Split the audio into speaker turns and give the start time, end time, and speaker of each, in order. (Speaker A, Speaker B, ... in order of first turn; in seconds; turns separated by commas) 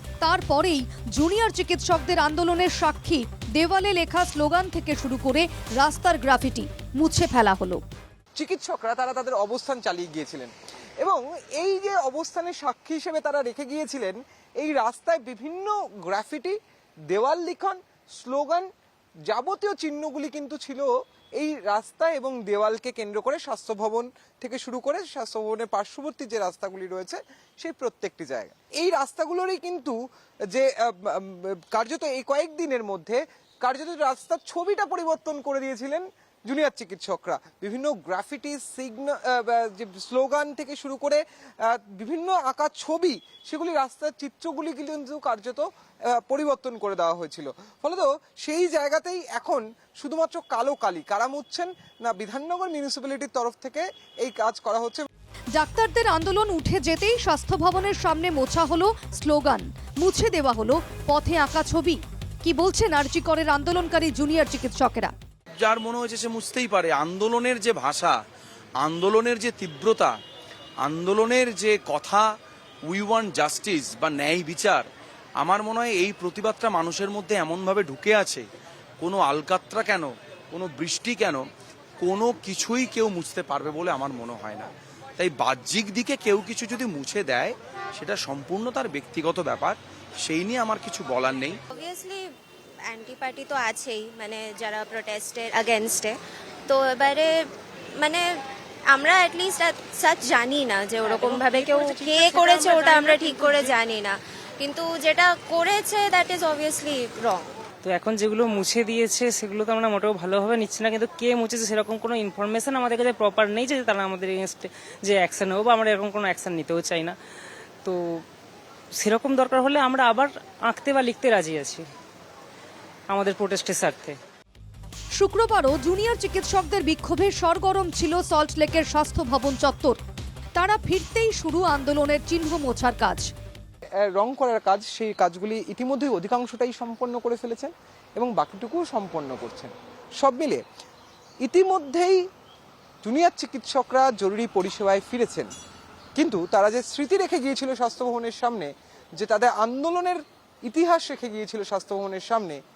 Speaker A: 0.2-7.8, Speaker B: 8.4-16.6, Speaker B: 17.1-18.7, Speaker B: 19.3-30.0, Speaker B: 30.5-55.1, Speaker A: 55.5-65.1, Speaker C: 65.6-68.2, Speaker C: 68.8-70.1, Speaker C: 70.8-72.3, Speaker C: 72.9-74.8, Speaker C: 75.4-78.4, Speaker C: 79.0-81.4, Speaker C: 82.0-91.6, Speaker D: 91.7-92.3, Speaker D: 92.9-97.4, Speaker D: 98.0-98.3, Speaker D: 98.9-107.5, Speaker E: 107.8-117.2, Speaker E: 117.8-118.2, Speaker E: 119.0-121.8, Speaker E: 123.1-124.2, Speaker A: 125.1-130.0, Speaker A: 130.6-133.3, Speaker B: 134.0-140.6, Speaker B: 141.4-142.2, Speaker B: 143.0-145.5, Speaker B: 146.2-152.6